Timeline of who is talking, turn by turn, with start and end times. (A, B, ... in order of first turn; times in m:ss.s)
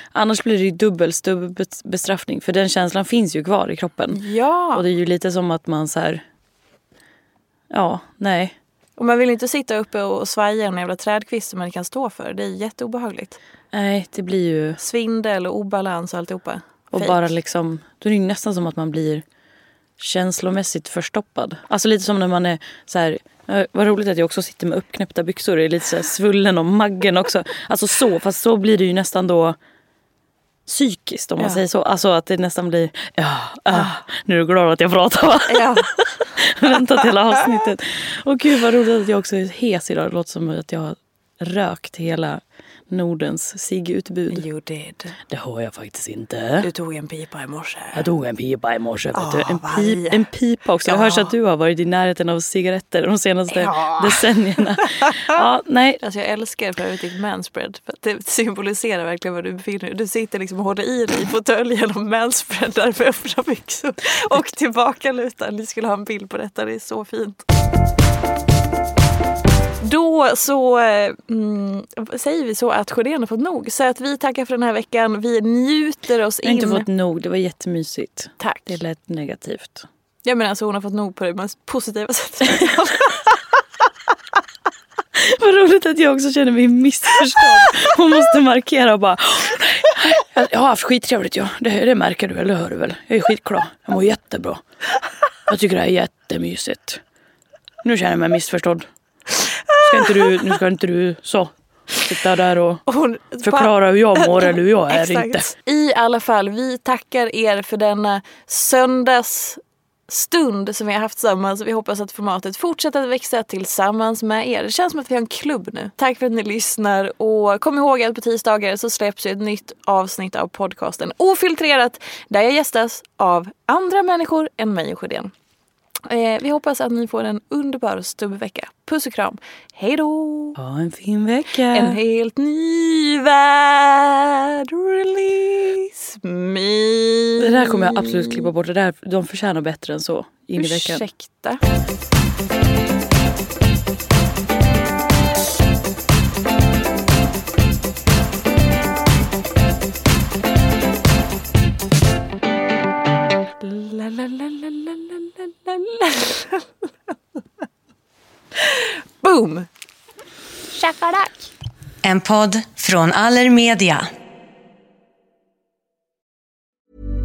0:00.1-0:04.2 A
0:04.1-0:04.8 B
0:04.7-0:06.2 A
0:07.7-0:08.5 A
0:09.0-0:13.4 B
0:13.7-0:14.8 A
0:14.8-0:17.3 B
0:16.9-0:19.2 A
0:20.0-0:29.6 A
0:30.7-0:44.4 A
0:35.5-0:35.8 B
0:44.3-0:45.1 B
0:45.3-0:46.7 A
0:46.6-0:48.1 B
0:47.9-0:56.0 A
0:49.1-0:50.3 B
0:50.8-0:51.3 B
0:53.5-0:54.2 B
0:56.0-1:07.4 B
1:09.8-1:16.9 B
1:16.4-1:19.8 A
1:18.4-1:18.8 B
1:20.2-1:23.4 B
1:25.2-1:34.6 A
1:35.5-1:37.0 A
1:37.8-1:38.8 A
1:39.7-1:42.8 A
1:42.9-2:05.3 B
1:43.4-1:45.5 A
2:06.1-2:10.6 B
2:10.6-2:12.0 A
2:11.7-2:18.5 B
2:17.4-2:21.0 A
2:20.6-2:21.6 B
2:33.6-2:36.6 B
2:38.8-2:39.7 B
2:42.0-2:44.1 C